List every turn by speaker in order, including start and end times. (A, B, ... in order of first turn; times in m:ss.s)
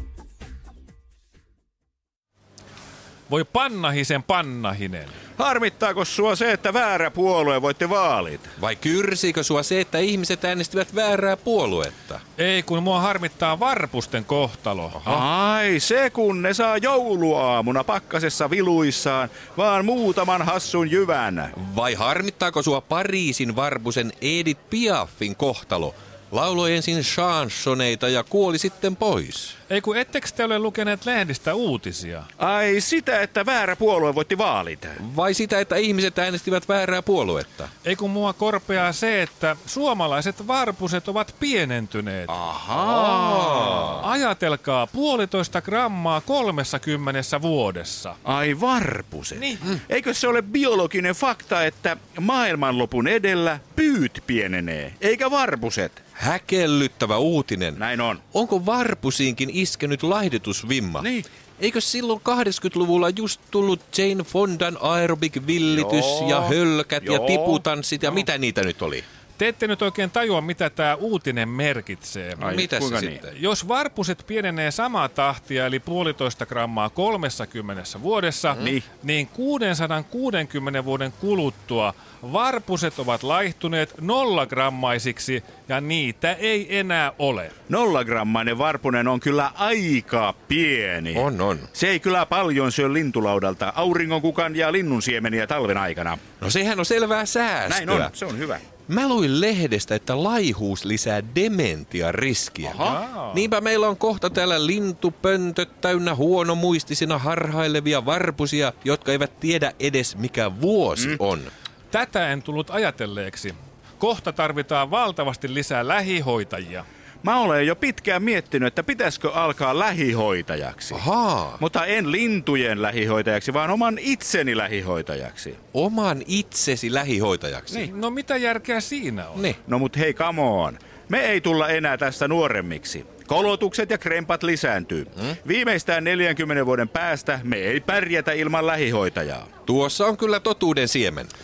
0:03.3-0:05.2 A
0:05.4-0:08.5 B
0:08.6-0:12.2 C
0:12.4-0:15.2 A
0:15.0-0:21.5 B
0:21.5-0:29.5 C
0:29.7-0:32.3 A
0:32.4-0:35.0 B
0:35.0-0:37.7 C
0:37.8-0:42.4 A
0:42.4-0:44.0 C
0:42.5-0:44.0 B
0:44.0-0:48.2 A
0:48.2-0:56.0 B
0:49.4-0:49.6 A
0:56.2-0:57.8 C
0:57.8-0:58.2 B
0:58.3-1:09.0 C
1:05.7-1:07.6 B
1:09.4-1:12.6 A
1:12.4-1:13.3 C
1:12.4-1:13.2 B
1:13.3-1:27.5 A
1:18.6-1:18.8 B
1:27.7-1:36.2 B
1:31.1-1:31.7 C
1:36.4-1:38.1 C
1:37.6-1:38.6 B
1:38.9-1:51.5 C
1:42.6-1:43.0 B
1:42.7-1:43.5 A
1:51.9-1:56.8 A
1:57.2-2:01.0 B
2:00.9-2:01.6 C
2:01.6-2:05.6 B
2:05.7-2:07.9 C
2:07.7-2:09.5 A
2:09.6-2:19.5 B
2:19.6-2:21.3 C